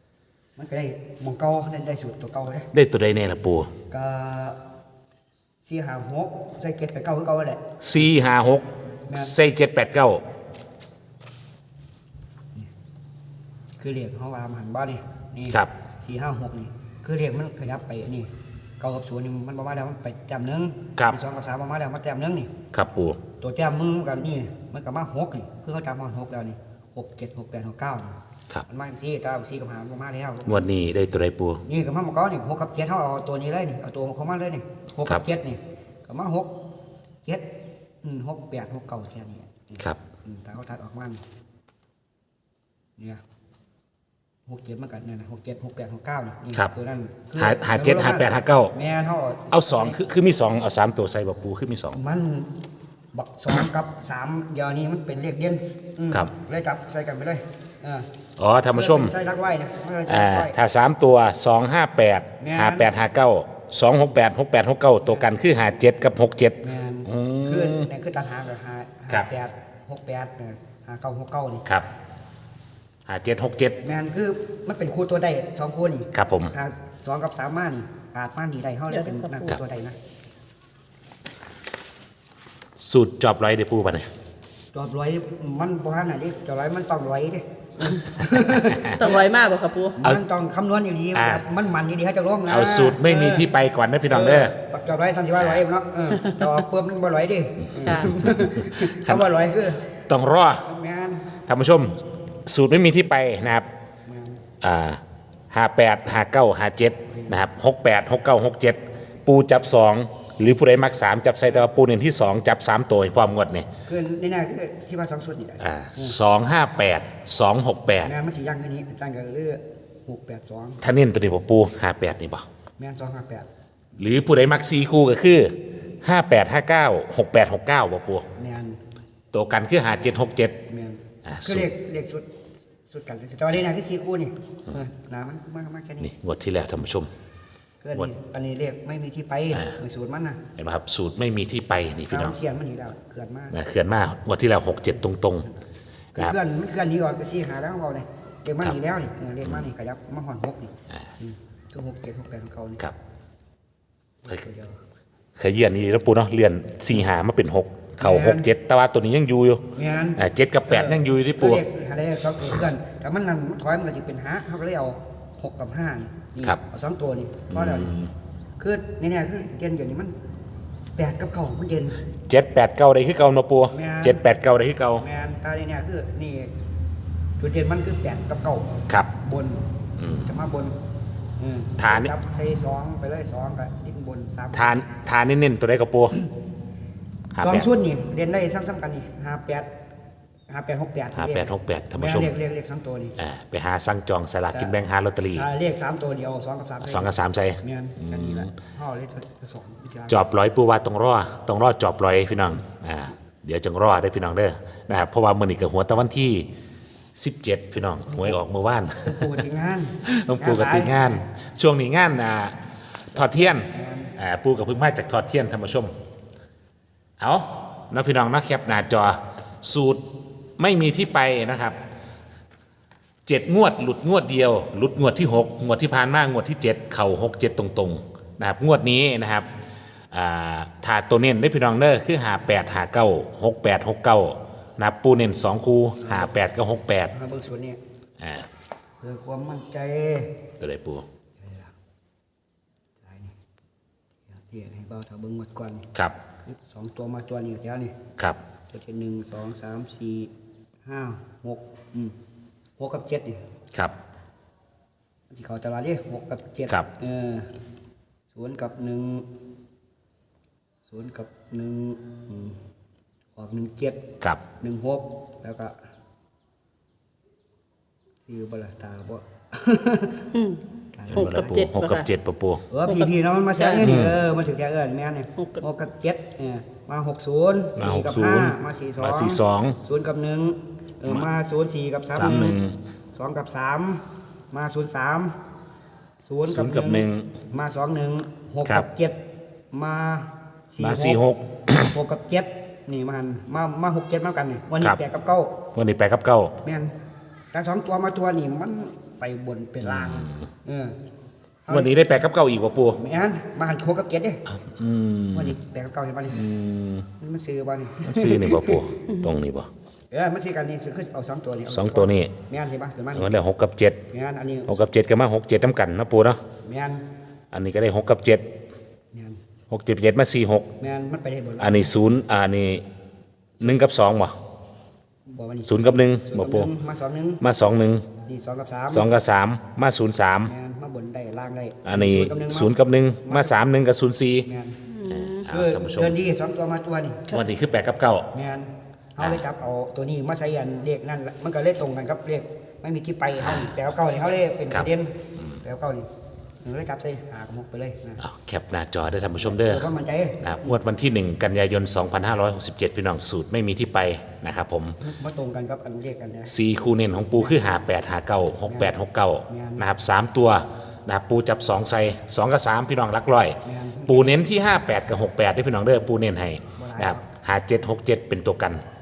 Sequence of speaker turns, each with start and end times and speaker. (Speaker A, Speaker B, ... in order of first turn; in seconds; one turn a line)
Speaker A: 0.6-2.7
Speaker B: 2.7-3.7
Speaker A: 3.9-4.6
Speaker A: 5.6-7.6
Speaker B: 7.8-10.2
Speaker A: 9.1-9.3
Speaker A: 13.8-18.3
Speaker A: 18.8-22.5
Speaker B: 22.7-23.2
Speaker A: 23.4-30.6
Speaker B: 30.4-31.6
Speaker A: 31.6-36.5
Speaker A: 38.0-41.2
Speaker A: 44.5-50.0
Speaker B: 47.4-48.7
Speaker B: 49.5-52.0
Speaker A: 51.9-52.5
Speaker A: 53.1-58.0
Speaker B: 58.4-59.1
Speaker A: 58.7-60.5
Speaker B: 60.1-67.8
Speaker A: 62.4-62.9
Speaker A: 66.6-71.6
Speaker B: 73.1-73.8
Speaker A: 73.8-80.0
Speaker B: 76.1-76.5
Speaker C: 78.9-79.6
Speaker B: 82.8-84.1
Speaker A: 84.7-89.2
Speaker B: 88.7-89.0
Speaker C: 88.9-90.0
Speaker A: 90.0-93.5
Speaker B: 91.1-91.4
Speaker B: 92.5-94.5
Speaker A: 94.1-100.0
Speaker B: 95.4-95.6
Speaker C: 96.2-96.5
Speaker C: 97.8-98.1
Speaker B: 97.9-99.3
Speaker B: 100.1-100.7
Speaker A: 100.6-101.3
Speaker B: 101.5-103.7
Speaker A: 104.0-104.4
Speaker B: 104.6-113.7
Speaker A: 107.1-107.4
Speaker A: 113.9-116.2
Speaker B: 115.6-118.1
Speaker A: 118.0-120.8
Speaker B: 120.8-122.5
Speaker A: 122.8-123.5
Speaker B: 124.0-128.2
Speaker A: 128.3-128.8
Speaker B: 129.3-130.5
Speaker A: 130.7-132.2
Speaker B: 131.2-131.7
Speaker A: 132.9-136.1
Speaker B: 136.0-137.1
Speaker A: 137.8-140.4
Speaker B: 140.6-142.3
Speaker A: 142.1-143.5
Speaker B: 143.5-145.5
Speaker A: 146.1-152.8
Speaker A: 154.2-154.8
Speaker B: 155.3-159.6
Speaker A: 158.0-158.5
Speaker A: 159.7-167.9
Speaker B: 160.2-161.6
Speaker B: 167.5-168.1
Speaker A: 168.6-170.2
Speaker A: 170.9-172.0
Speaker B: 172.3-175.0
Speaker A: 173.7-174.2
Speaker A: 175.0-176.5
Speaker A: 177.4-179.6
Speaker B: 180.0-180.2
Speaker A: 180.2-180.7
Speaker A: 181.4-185.0
Speaker B: 181.8-182.1
Speaker B: 184.5-186.2
Speaker B: 187.3-187.7
Speaker A: 187.4-189.7
Speaker A: 190.5-193.2
Speaker B: 191.1-192.3
Speaker B: 193.2-195.5
Speaker A: 195.3-200.2
Speaker B: 196.8-198.5
Speaker B: 200.1-206.5
Speaker B: 207.2-209.4
Speaker A: 208.1-208.4
Speaker A: 209.0-211.2
Speaker B: 210.0-212.5
Speaker B: 213.1-215.9
Speaker A: 213.3-214.1
Speaker B: 217.2-220.0
Speaker B: 220.6-221.8
Speaker B: 223.2-229.5
Speaker B: 230.1-237.1
Speaker A: 236.0-236.3
Speaker A: 237.1-237.8
Speaker B: 238.2-238.4
Speaker A: 239.0-240.3
Speaker B: 240.6-241.1
Speaker A: 241.4-241.7
Speaker A: 243.0-243.3
Speaker A: 244.3-245.9
Speaker A: 246.5-247.9
Speaker A: 248.7-250.3
Speaker A: 250.8-252.1
Speaker A: 252.8-253.4
Speaker A: 255.3-257.5
Speaker A: 258.3-259.3
Speaker A: 260.9-262.6
Speaker A: 263.4-264.0
Speaker A: 264.6-265.8
Speaker A: 268.2-270.3
Speaker C: 270.3-270.6
Speaker A: 270.9-271.6
Speaker B: 271.1-272.6
Speaker C: 271.1-272.1
Speaker A: 272.7-282.6
Speaker C: 272.8-273.9
Speaker B: 273.8-274.2
Speaker C: 275.4-275.6
Speaker B: 277.8-279.8
Speaker B: 282.1-282.8
Speaker A: 283.1-285.3
Speaker A: 286.3-289.2
Speaker B: 286.4-287.3
Speaker A: 289.7-291.2
Speaker B: 290.8-291.9
Speaker A: 291.9-295.6
Speaker B: 295.7-296.5
Speaker A: 296.6-296.9
Speaker A: 297.5-300.9
Speaker B: 299.8-300.5
Speaker A: 301.6-301.9
Speaker B: 301.7-303.0
Speaker A: 302.9-304.4
Speaker B: 304.5-305.6
Speaker A: 305.3-306.4
Speaker B: 306.3-307.1
Speaker A: 307.2-308.9
Speaker B: 308.0-309.7
Speaker A: 310.1-313.3
Speaker B: 311.7-312.3
Speaker B: 313.1-314.0
Speaker A: 314.1-314.7
Speaker B: 314.7-316.4
Speaker A: 316.6-317.0
Speaker B: 317.5-318.4
Speaker B: 319.7-320.7
Speaker A: 320.8-321.8
Speaker B: 321.6-322.8
Speaker B: 323.6-324.3
Speaker A: 325.3-327.4
Speaker B: 325.7-326.7
Speaker B: 327.4-328.1
Speaker A: 328.2-329.2
Speaker B: 328.9-330.5
Speaker A: 330.4-332.7
Speaker B: 331.8-334.5
Speaker A: 333.2-333.5
Speaker A: 334.4-334.8
Speaker C: 334.9-335.4
Speaker B: 335.1-336.1
Speaker A: 335.5-337.3
Speaker B: 337.3-338.2
Speaker A: 338.3-346.1
Speaker B: 343.4-343.7
Speaker A: 346.6-348.2
Speaker B: 348.2-349.9
Speaker A: 349.4-350.6
Speaker B: 350.4-355.0
Speaker A: 355.0-356.5
Speaker B: 356.5-368.8
Speaker A: 358.7-358.9
Speaker A: 359.5-359.9
Speaker A: 363.6-364.4
Speaker A: 366.8-367.2